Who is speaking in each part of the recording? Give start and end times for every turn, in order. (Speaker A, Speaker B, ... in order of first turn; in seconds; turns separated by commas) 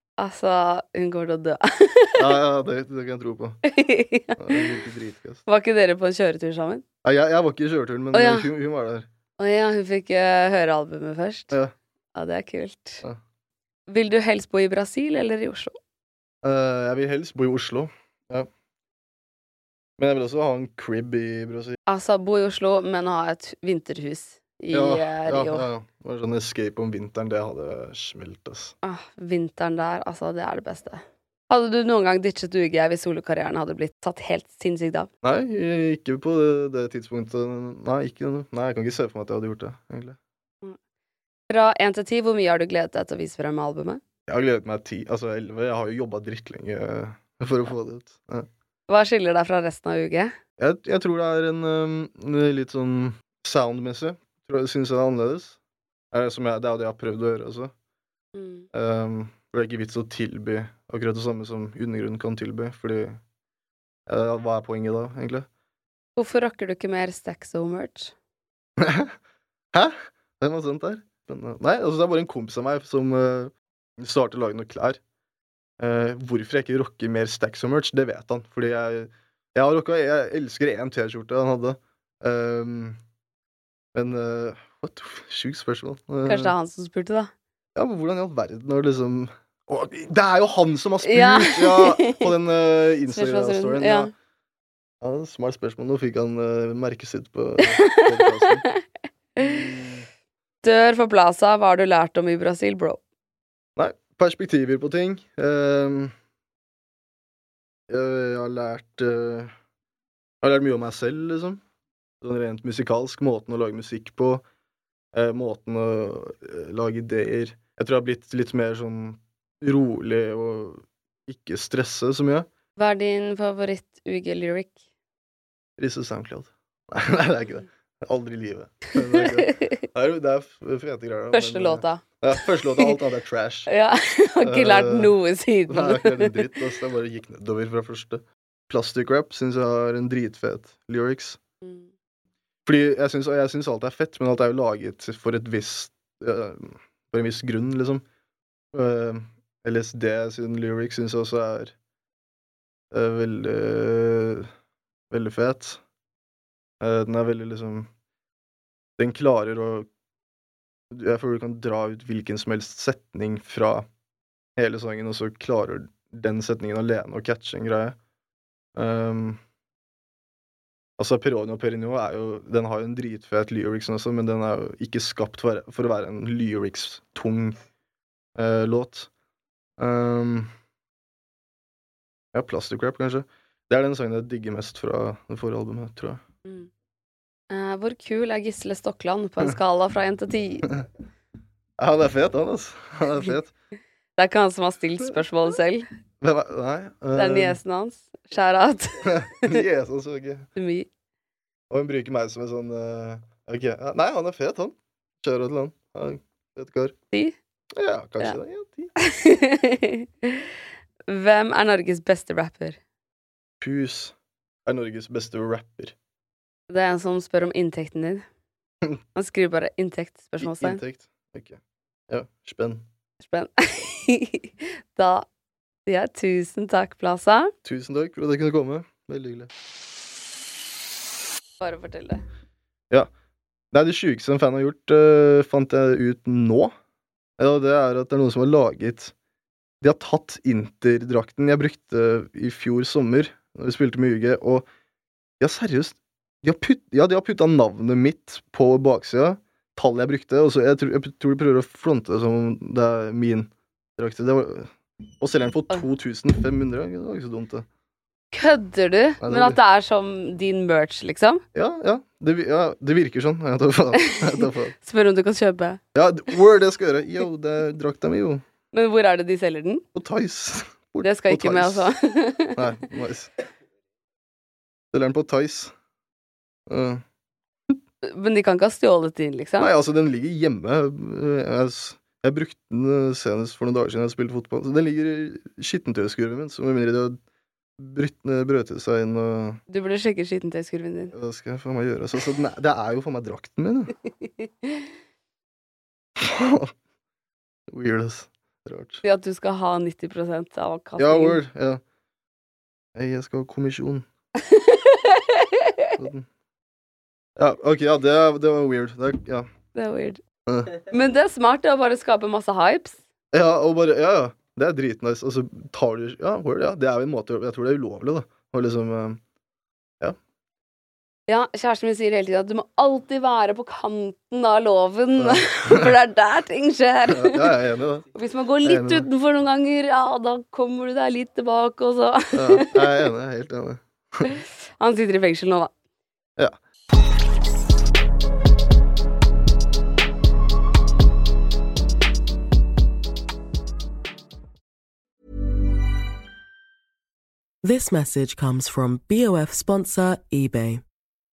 Speaker A: 0.2-2.3, Speaker B: 2.2-3.6, Speaker A: 3.7-4.8, Speaker B: 4.4-5.4, Speaker A: 5.5-6.8, Speaker B: 7.0-9.1, Speaker A: 8.1-8.5, Speaker A: 9.4-11.6, Speaker A: 12.1-13.0, Speaker A: 13.9-15.8, Speaker B: 16.4-18.5, Speaker B: 20.0-21.8, Speaker A: 21.9-25.7, Speaker B: 24.7-28.7, Speaker A: 28.8-35.1, Speaker B: 35.2-40.2, Speaker A: 41.5-44.0, Speaker B: 44.3-48.5, Speaker A: 48.9-50.3, Speaker B: 50.6-55.6, Speaker B: 56.1-57.7, Speaker A: 58.3-58.7, Speaker B: 58.7-63.2, Speaker B: 64.1-65.5, Speaker A: 66.2-68.1, Speaker B: 68.8-69.1, Speaker B: 69.7-75.0, Speaker B: 75.8-83.0, Speaker B: 83.9-86.5, Speaker A: 86.3-87.3, Speaker B: 87.7-94.1, Speaker A: 91.0-92.3, Speaker A: 93.1-94.1, Speaker B: 95.0-98.6, Speaker A: 97.6-98.8, Speaker B: 99.4-100.1, Speaker A: 100.6-103.0, Speaker B: 103.8-106.1, Speaker B: 107.9-109.5, Speaker B: 110.4-111.6, Speaker B: 112.2-114.4, Speaker B: 115.1-122.5, Speaker A: 122.8-124.8, Speaker B: 125.8-133.7, Speaker A: 129.1-129.8, Speaker A: 131.3-132.9, Speaker A: 133.7-136.5, Speaker B: 134.4-135.1, Speaker B: 135.7-141.4, Speaker A: 141.6-141.9, Speaker B: 142.7-148.0, Speaker B: 148.7-151.7, Speaker B: 152.9-154.5, Speaker B: 155.1-155.8, Speaker B: 156.8-157.9, Speaker B: 159.0-159.9, Speaker B: 160.9-163.9, Speaker B: 164.6-167.9, Speaker B: 168.7-169.4, Speaker B: 171.0-177.6, Speaker B: 178.3-179.1, Speaker B: 179.8-180.5, Speaker B: 182.3-186.2, Speaker A: 187.5-190.7, Speaker B: 191.8-193.5, Speaker A: 194.2-195.8, Speaker B: 196.2-197.6, Speaker A: 197.1-199.6, Speaker B: 199.0-200.5, Speaker A: 200.6-200.9, Speaker B: 201.7-206.9, Speaker B: 207.8-208.9, Speaker A: 209.0-210.4, Speaker A: 211.1-212.8, Speaker B: 213.6-214.1, Speaker B: 214.6-215.9, Speaker A: 216.7-218.2, Speaker A: 219.1-220.8, Speaker B: 220.4-222.8, Speaker A: 223.2-225.3, Speaker A: 225.9-227.5, Speaker B: 227.6-229.5, Speaker A: 231.6-232.2, Speaker B: 233.7-236.7, Speaker B: 237.4-239.1, Speaker B: 239.8-244.7, Speaker B: 245.4-257.7, Speaker A: 258.3-261.4, Speaker B: 259.2-259.6, Speaker B: 261.5-264.7, Speaker A: 264.1-265.8, Speaker B: 265.9-268.4, Speaker A: 268.7-269.8, Speaker B: 269.9-271.9, Speaker A: 271.0-272.6, Speaker B: 272.6-273.3, Speaker B: 274.9-275.7, Speaker B: 276.7-277.0, Speaker A: 278.0-279.7, Speaker B: 279.6-287.2, Speaker B: 287.8-289.6, Speaker A: 289.7-291.1, Speaker B: 291.1-293.9, Speaker A: 294.4-294.8, Speaker B: 296.2-296.7, Speaker B: 297.7-299.0, Speaker A: 299.0-301.4, Speaker B: 301.0-301.8, Speaker B: 302.9-304.1, Speaker A: 304.4-305.9, Speaker B: 306.0-306.3, Speaker B: 307.4-309.5, Speaker A: 309.7-310.2, Speaker B: 310.4-310.7, Speaker A: 310.8-313.0, Speaker B: 313.3-319.2, Speaker A: 321.3-327.5, Speaker B: 325.2-325.9, Speaker B: 327.1-328.1, Speaker A: 328.1-333.1, Speaker B: 328.6-329.1, Speaker B: 332.3-334.3, Speaker A: 334.3-335.7, Speaker C: 347.6-350.8